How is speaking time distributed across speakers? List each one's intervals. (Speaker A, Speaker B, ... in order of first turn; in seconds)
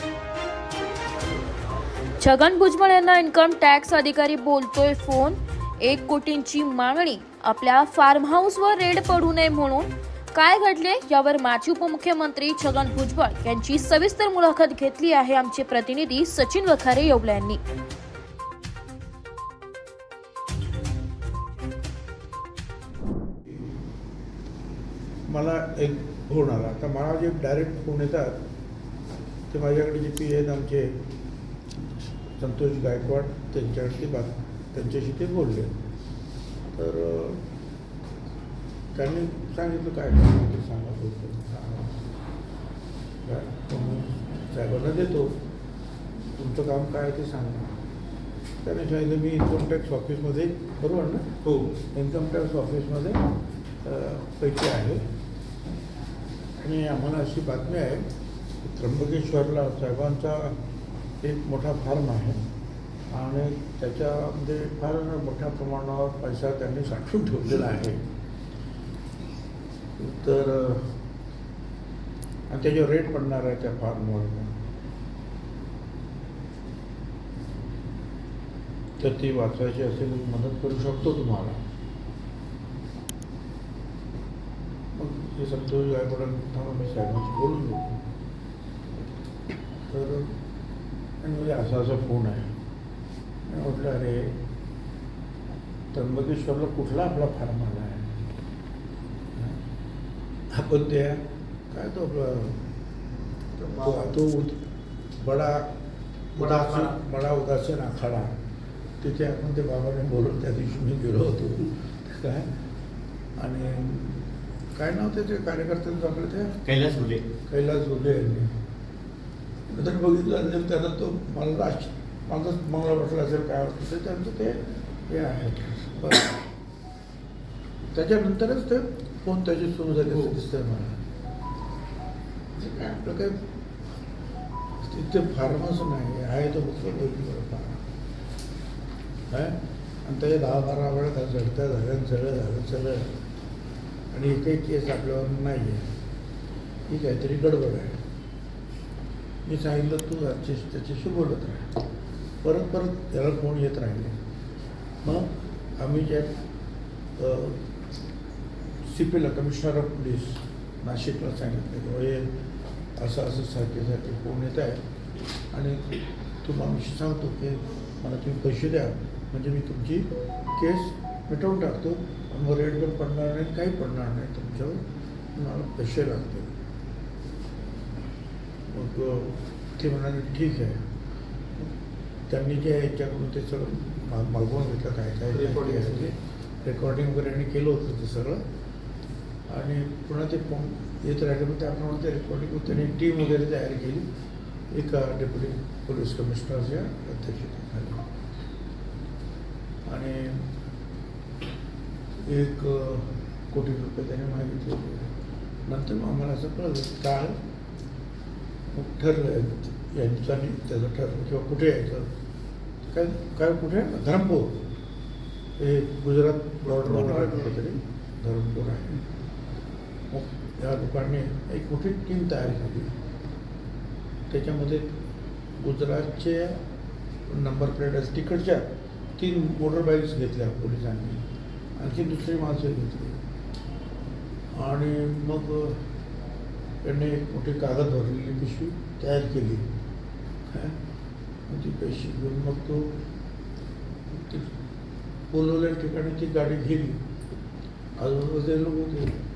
Speaker A: 2.2-17.6
Speaker B: 25.2-28.4, 29.5-31.0, 32.4-35.7, 36.7-37.4, 38.9-42.0, 43.2-45.4, 46.3-47.7, 48.6-53.2, 53.8-55.0, 56.6-58.0, 58.6-60.6, 61.2-62.4, 63.1-68.0, 70.0-70.9, 72.5-74.6, 79.0-81.6, 84.9-88.0, 89.9-90.3, 91.2-92.5, 93.5-94.4, 95.9-98.2, 100.5-102.6, 103.8-104.6, 105.2-105.7, 106.3-108.3, 109.0-112.5, 113.4-116.6, 117.5-118.5, 119.7-126.4, 127.9-131.0, 132.5-133.4, 134.8-137.8, 139.3-143.2, 144.1-145.9, 146.9-148.0, 149.4-151.7, 152.4-154.2, 155.0-156.3, 157.2-157.6, 158.8-162.3, 163.0-164.8, 165.5-165.8, 166.4-174.8, 175.3-176.5, 178.7-180.8, 182.3-188.4, 189.5-194.1, 194.7-198.0, 199.9-200.5, 202.2-205.1, 205.6-207.3, 208.7-212.1, 212.8-214.6, 215.6-219.0, 220.1-222.9, 224.3-224.9, 225.6-226.6, 227.2-233.2, 234.5-235.8, 236.8-239.7, 240.5-240.8, 241.5-242.9, 244.1-244.5, 245.3-247.0, 248.0-249.1
Speaker C: 51.4-51.7, 103.6-104.1, 106.4-107.0, 116.6-117.2, 185.3-186.1, 216.6-217.7